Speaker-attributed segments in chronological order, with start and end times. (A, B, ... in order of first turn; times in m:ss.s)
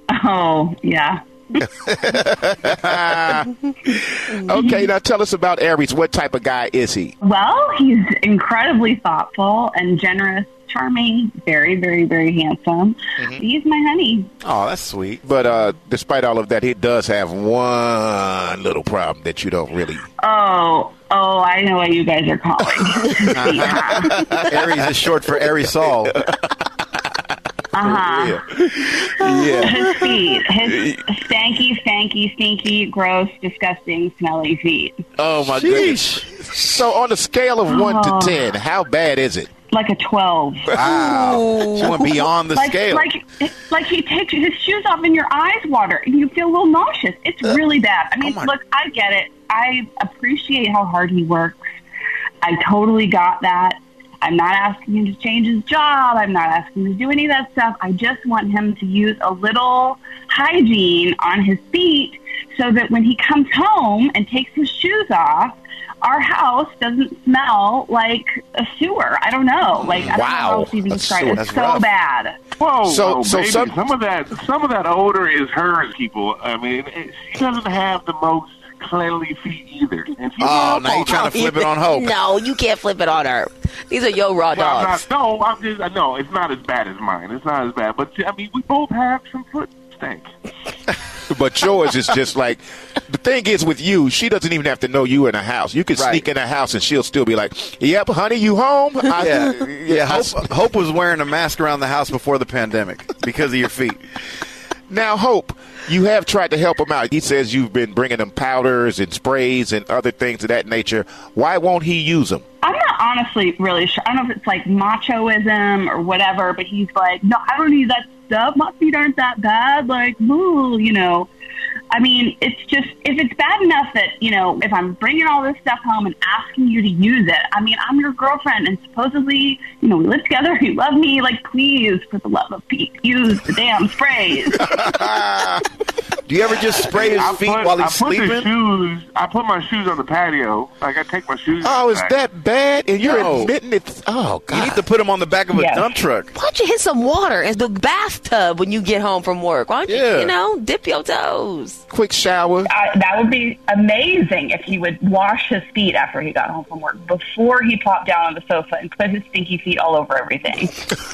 0:00.1-0:01.2 A
0:01.6-0:07.1 B
0:04.6-0:04.9 A
0:07.2-0:14.3 A
0:14.4-0:15.2 C
0:15.2-0:20.1 B
0:20.2-0:24.3 A
0:23.3-0:23.8 C
0:23.4-0:24.5 B
0:24.5-0:26.1 C
0:27.7-0:28.4 A
0:27.8-0:30.0 B
0:29.6-0:35.0 A
0:30.7-0:31.0 B
0:35.2-0:39.5 B
0:35.4-0:36.4 C
0:37.7-0:38.5 A
0:39.7-0:40.8 A
0:40.7-0:43.1 C
0:40.8-0:42.1 D
0:41.8-0:51.6 A
0:48.2-0:48.5 C
0:52.4-1:12.4 A
1:09.8-1:11.4 B
1:11.4-1:11.8 C
1:12.6-1:21.4 E
1:12.8-1:13.8 B
1:20.4-1:22.1 C
1:21.1-1:25.0 D
1:24.5-1:30.3 E
1:31.3-1:40.5 B
1:35.9-1:36.3 C
1:39.2-1:44.0 C
1:44.9-1:52.4 B
1:52.6-2:01.3 A
2:01.9-2:14.7 A
2:14.7-2:15.6 B
2:16.2-2:18.5 C
2:16.9-2:22.2 E
2:21.6-2:24.8 B
2:23.0-2:23.5 C
2:24.5-2:26.3 C
2:25.5-2:26.0 A
2:26.3-2:31.8 D
2:29.9-2:30.3 C
2:31.9-2:32.7 B
2:32.7-2:40.8 A